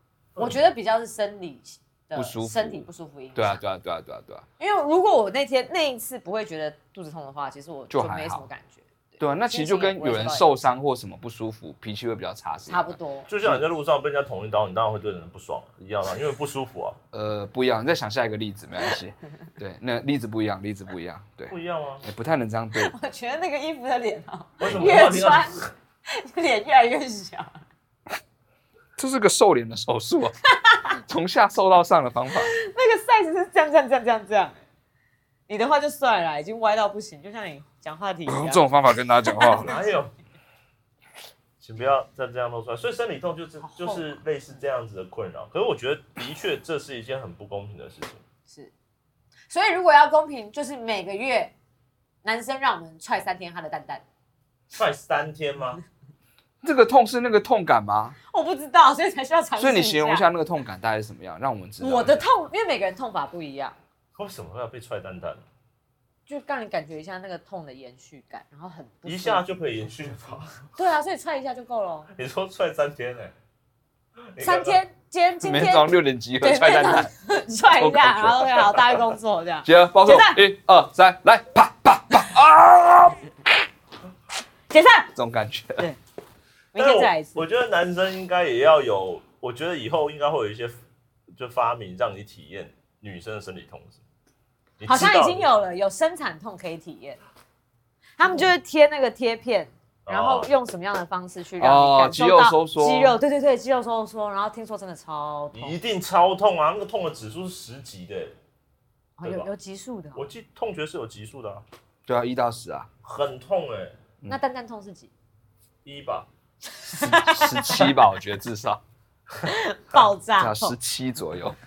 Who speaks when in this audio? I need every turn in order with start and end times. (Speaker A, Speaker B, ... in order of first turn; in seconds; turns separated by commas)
Speaker A: 0.3-0.6, Speaker B: 0.4-3.6, Speaker C: 2.1-2.8, Speaker C: 3.3-4.4, Speaker B: 4.6-10.5, Speaker C: 7.9-8.5, Speaker C: 9.2-13.6, Speaker B: 12.7-13.3, Speaker A: 13.3-17.0, Speaker C: 17.1-22.9, Speaker A: 21.5-22.0, Speaker B: 22.8-27.6, Speaker A: 24.6-25.7, Speaker C: 29.0-30.3, Speaker B: 30.5-30.8, Speaker C: 31.1-32.5, Speaker B: 32.3-34.5, Speaker B: 35.5-38.7, Speaker C: 38.3-39.7, Speaker B: 39.2-39.8, Speaker A: 39.6-40.1, Speaker A: 41.6-48.2, Speaker B: 43.7-44.0, Speaker B: 49.5-51.5, Speaker B: 52.2-54.0, Speaker A: 54.7-55.8, Speaker C: 56.6-58.2, Speaker B: 58.3-60.2, Speaker C: 59.6-62.2, Speaker B: 61.8-63.8, Speaker A: 64.2-65.4, Speaker B: 66.3-69.4, Speaker A: 69.0-70.6, Speaker B: 70.7-72.1, Speaker A: 72.2-73.3, Speaker A: 74.3-74.8, Speaker B: 74.4-80.4, Speaker C: 75.4-77.1, Speaker C: 77.7-78.5, Speaker C: 79.6-83.2, Speaker B: 84.7-85.1, Speaker C: 85.2-85.8, Speaker B: 86.7-87.4, Speaker A: 86.8-90.8, Speaker A: 91.3-94.0, Speaker A: 94.8-95.5, Speaker B: 94.8-97.2, Speaker B: 98.2-105.8, Speaker A: 100.0-100.5, Speaker C: 101.6-103.2, Speaker A: 105.5-108.3, Speaker B: 109.2-110.2, Speaker A: 109.2-109.5, Speaker A: 110.2-111.6, Speaker C: 112.1-112.9, Speaker A: 113.0-114.0, Speaker B: 114.3-115.1, Speaker A: 115.8-116.3, Speaker B: 116.8-117.9, Speaker C: 117.0-118.8, Speaker B: 119.4-120.8, Speaker C: 120.4-121.6